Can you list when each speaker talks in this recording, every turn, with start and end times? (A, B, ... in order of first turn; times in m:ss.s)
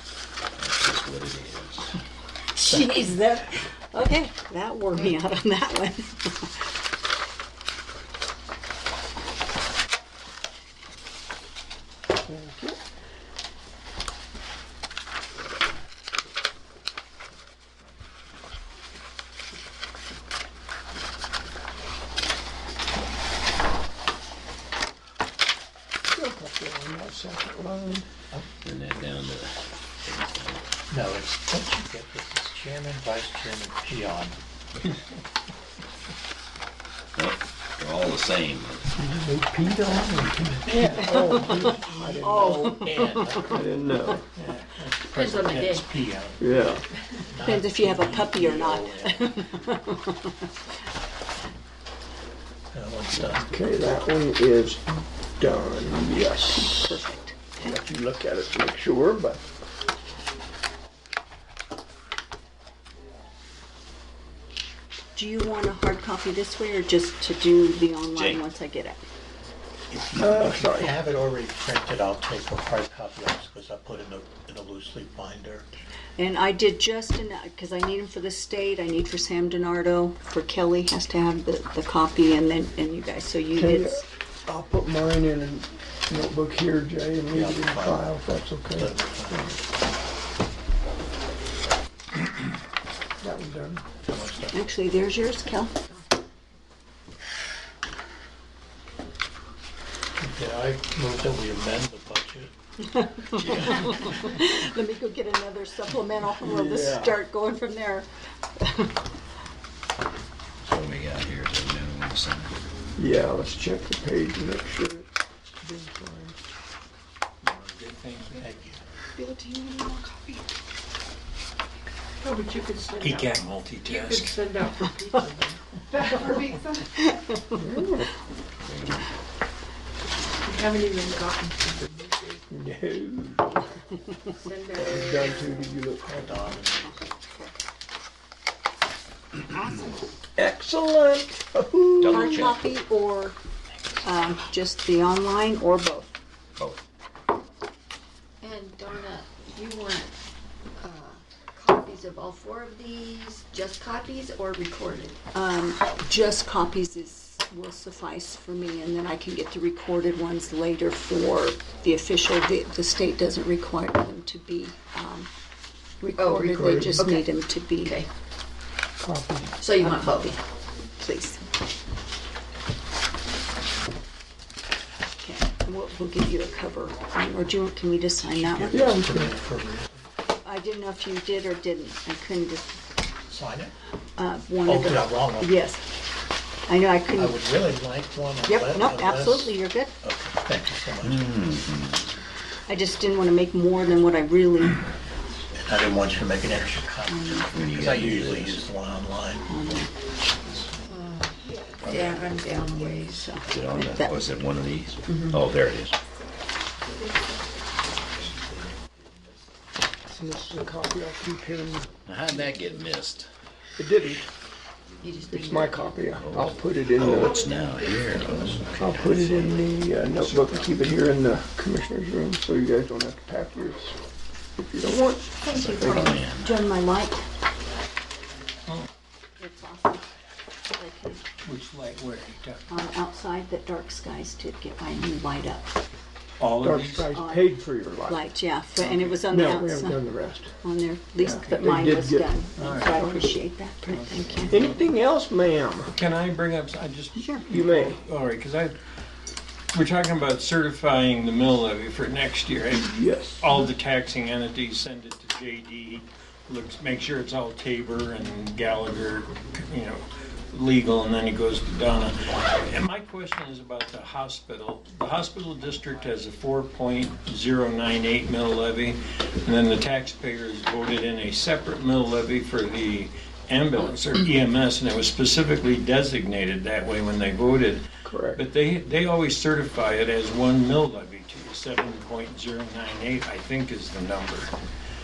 0:00.6-0:01.9 A
0:02.5-0:06.6 B
0:12.2-0:12.8 C
0:26.1-0:28.1 C
0:28.6-0:30.6 A
0:30.9-0:34.4 D
0:37.2-0:38.9 A
0:39.0-0:42.8 C
0:40.7-0:46.7 D
0:41.0-0:43.6 B
0:43.5-0:44.2 C
0:45.0-0:46.0 E
0:46.4-0:46.8 C
0:47.2-0:49.5 D
0:47.4-0:50.5 B
0:52.7-0:53.6 D
0:53.2-0:57.0 C
0:56.5-0:57.8 B
0:57.6-0:59.4 C
1:05.1-1:09.0 B
1:08.1-1:08.4 A
1:09.9-1:15.7 D
1:10.1-1:11.0 C
1:16.2-1:24.0 B
1:23.5-1:29.6 C
1:27.3-1:28.1 D
1:28.8-1:29.4 D
1:33.2-1:33.8 C
1:34.0-1:34.6 D
1:34.5-1:35.7 B
1:40.2-1:42.5 D
1:42.9-1:48.1 B
1:43.3-1:44.1 A
1:46.4-1:47.2 C
1:48.6-1:48.9 B
1:50.6-1:52.5 A
1:53.0-1:55.1 C
1:55.6-1:56.4 C
1:57.4-1:58.5 F
1:58.4-1:58.8 D
1:59.2-2:00.4 G
1:59.2-1:59.9 E
2:02.2-2:06.6 G
2:03.0-2:04.7 F
2:07.0-2:07.6 B
2:07.6-2:08.1 C
2:08.6-2:09.1 A
2:10.4-2:12.4 G
2:12.5-2:13.6 C
2:14.3-2:15.7 E
2:14.7-2:16.5 C
2:16.1-2:16.9 D
2:16.8-2:17.5 B
2:20.4-2:22.3 C
2:22.0-2:22.6 A
2:22.1-2:23.4 B
2:24.0-2:26.2 B
2:28.4-2:30.1 E
2:30.8-2:35.2 E
2:35.3-2:45.3 B
2:46.0-2:48.0 B
2:46.2-2:48.1 E
2:46.5-2:47.0 C
2:49.0-2:49.5 C
2:49.6-2:50.4 E
2:49.8-2:50.2 B
2:51.0-2:51.4 B
2:55.2-2:59.1 B
2:58.4-3:00.0 D
2:58.7-2:59.3 C
3:00.4-3:02.8 B
3:03.3-3:03.7 D
3:04.2-3:05.8 B
3:04.6-3:05.5 D
3:06.7-3:07.4 B
3:07.1-3:11.4 D
3:08.4-3:09.9 B
3:11.0-3:12.1 A
3:12.7-3:14.8 B
3:15.6-3:19.5 D
3:17.0-3:17.6 B
3:17.5-3:18.6 A
3:19.5-3:19.9 B
3:20.9-3:23.4 E
3:21.8-3:22.2 A
3:22.7-3:24.2 B
3:23.4-3:26.0 A
3:30.1-3:31.9 C
3:32.0-3:33.3 A
3:33.8-3:34.3 C
3:35.0-3:36.2 E
3:35.3-3:37.4 C
3:36.2-3:40.7 A
3:37.4-3:37.7 E
3:38.7-3:44.0 C
3:44.7-3:46.2 C
3:45.4-3:46.2 E
3:45.5-3:46.5 A
3:46.4-3:47.2 B
3:49.4-3:50.0 B
3:50.7-3:51.2 B
3:51.4-3:52.6 F
3:52.7-3:55.7 B
3:56.4-3:57.1 F
3:56.6-3:58.2 C
3:57.1-3:57.5 B
3:58.0-4:00.0 B
3:58.8-4:00.5 C
4:00.6-4:04.7 B
4:01.2-4:01.6 F
4:01.2-4:03.2 C
4:02.6-4:03.0 F
4:03.9-4:04.8 F
4:04.5-4:05.9 C
4:05.9-4:08.8 F
4:07.2-4:07.4 B
4:07.4-4:08.0 C
4:09.7-4:37.8 F
4:12.7-4:13.5 C
4:38.0-4:38.4 C
4:38.3-4:44.5 F